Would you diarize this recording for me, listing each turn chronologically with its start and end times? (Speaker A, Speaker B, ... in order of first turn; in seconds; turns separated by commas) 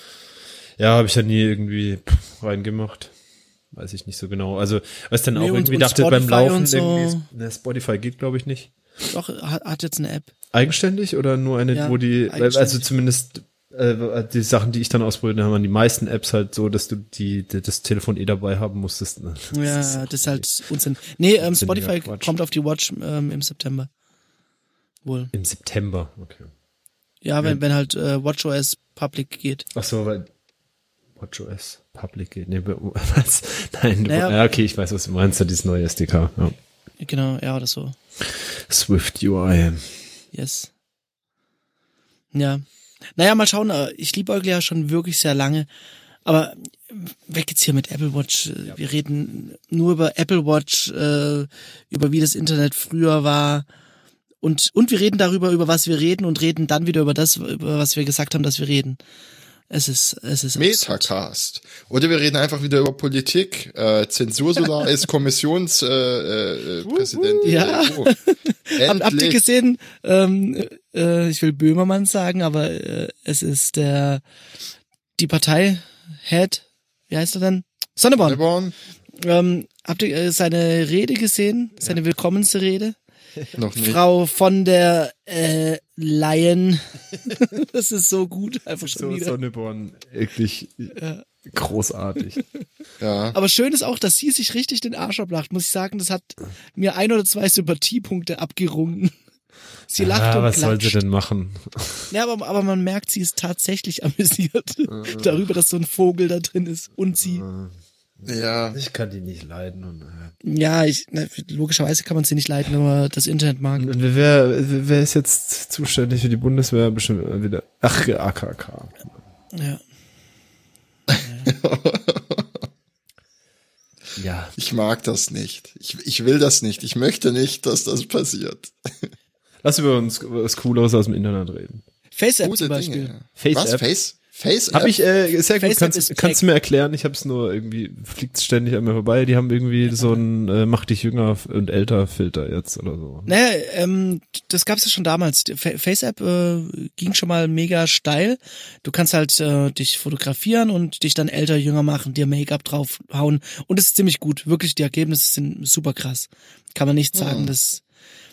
Speaker A: 0.8-3.1, Speaker A: 3.7-8.7, Speaker B: 5.3-7.3, Speaker B: 9.1-10.3, Speaker A: 10.5-20.5, Speaker B: 11.7-12.8, Speaker B: 19.5-23.9, Speaker A: 21.4-22.3, Speaker B: 25.1-25.3, Speaker A: 25.3-26.5, Speaker B: 27.2-29.7, Speaker A: 29.7-30.3, Speaker A: 31.2-36.6, Speaker B: 34.1-34.4, Speaker B: 37.0-38.0, Speaker A: 38.3-39.9, Speaker B: 40.3-40.7, Speaker B: 42.3-42.6, Speaker B: 43.2-45.7, Speaker B: 46.2-53.7, Speaker B: 54.4-59.0, Speaker B: 59.7-61.1, Speaker C: 60.6-68.1, Speaker A: 66.9-67.9, Speaker B: 67.4-74.2, Speaker C: 68.8-69.5, Speaker B: 75.2-78.4, Speaker C: 78.2-78.8, Speaker B: 79.2-83.0, Speaker C: 83.6-84.0, Speaker B: 83.8-89.3, Speaker A: 88.8-92.4, Speaker B: 91.0-91.2, Speaker C: 93.0-93.4, Speaker B: 93.3-99.1, Speaker B: 99.9-101.0, Speaker A: 100.0-102.1, Speaker B: 102.1-107.5, Speaker A: 104.9-105.4, Speaker A: 107.2-110.3, Speaker C: 108.3-108.8, Speaker B: 110.4-113.9, Speaker A: 113.8-119.2, Speaker B: 119.5-119.8, Speaker C: 121.1-122.6, Speaker B: 121.2-121.5, Speaker A: 124.2-124.5, Speaker C: 124.6-129.1, Speaker A: 129.6-131.8, Speaker B: 132.1-133.1, Speaker C: 132.4-134.9, Speaker A: 133.4-133.8, Speaker A: 134.7-143.3, Speaker B: 135.6-136.4, Speaker B: 139.8-140.2, Speaker B: 143.3-157.8, Speaker C: 157.2-157.5